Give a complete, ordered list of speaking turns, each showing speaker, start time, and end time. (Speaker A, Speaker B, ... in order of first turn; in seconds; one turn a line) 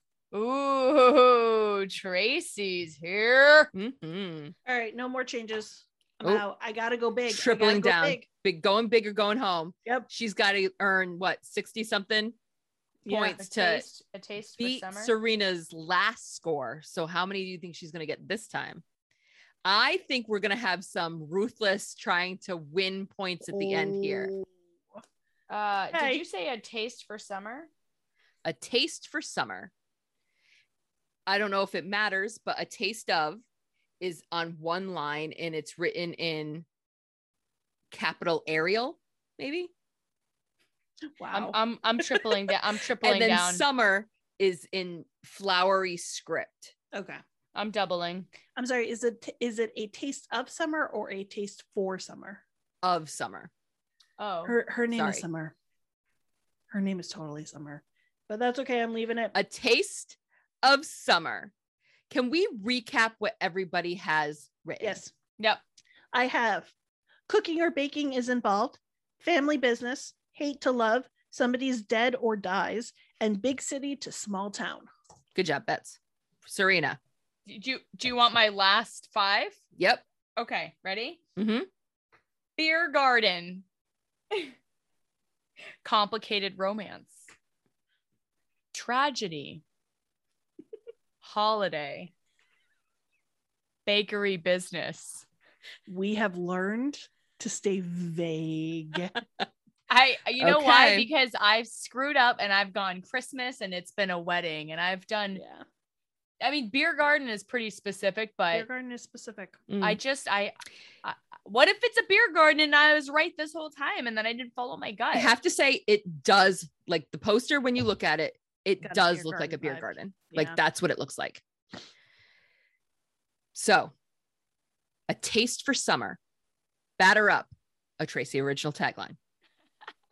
Speaker A: 0.3-3.7
Speaker B: 3.7-4.5
Speaker C: 4.7-8.2
Speaker B: 7.3-12.3
Speaker C: 13.0-13.4
Speaker B: 13.1-13.8
Speaker A: 13.3-15.1
Speaker B: 14.6-18.8
Speaker B: 19.6-24.3
Speaker C: 23.5-24.5
Speaker A: 25.5-27.7
Speaker C: 25.9-26.2
Speaker B: 28.4-29.7
Speaker B: 31.3-33.4
Speaker B: 34.0-36.6
Speaker B: 37.9-39.7
Speaker C: 41.1-41.6
Speaker A: 41.3-43.6
Speaker B: 43.0-46.7
Speaker C: 46.9-47.2
Speaker A: 47.5-48.3
Speaker C: 48.5-52.4
Speaker B: 52.8-53.5
Speaker A: 54.2-54.5
Speaker C: 54.4-55.5
Speaker B: 54.9-55.2
Speaker C: 56.7-59.3
Speaker B: 59.3-61.5
Speaker B: 62.1-65.0
Speaker C: 64.8-65.1
Speaker C: 66.1-66.7
Speaker C: 67.3-74.9
Speaker B: 75.3-77.0
Speaker A: 77.5-79.6
Speaker B: 79.8-80.0
Speaker A: 80.4-81.2
Speaker B: 81.4-81.7
Speaker A: 82.6-83.6
Speaker A: 85.8-87.3
Speaker A: 88.7-89.6
Speaker A: 91.2-92.1
Speaker A: 93.8-95.2
Speaker C: 95.9-99.2
Speaker A: 99.9-105.4
Speaker B: 100.4-101.1
Speaker C: 105.3-105.6
Speaker A: 106.4-108.7
Speaker C: 108.5-109.6
Speaker B: 109.7-110.0
Speaker A: 109.8-115.3
Speaker B: 115.1-121.4
Speaker C: 118.8-120.6
Speaker B: 123.5-123.9
Speaker B: 125.1-126.2
Speaker B: 127.0-129.2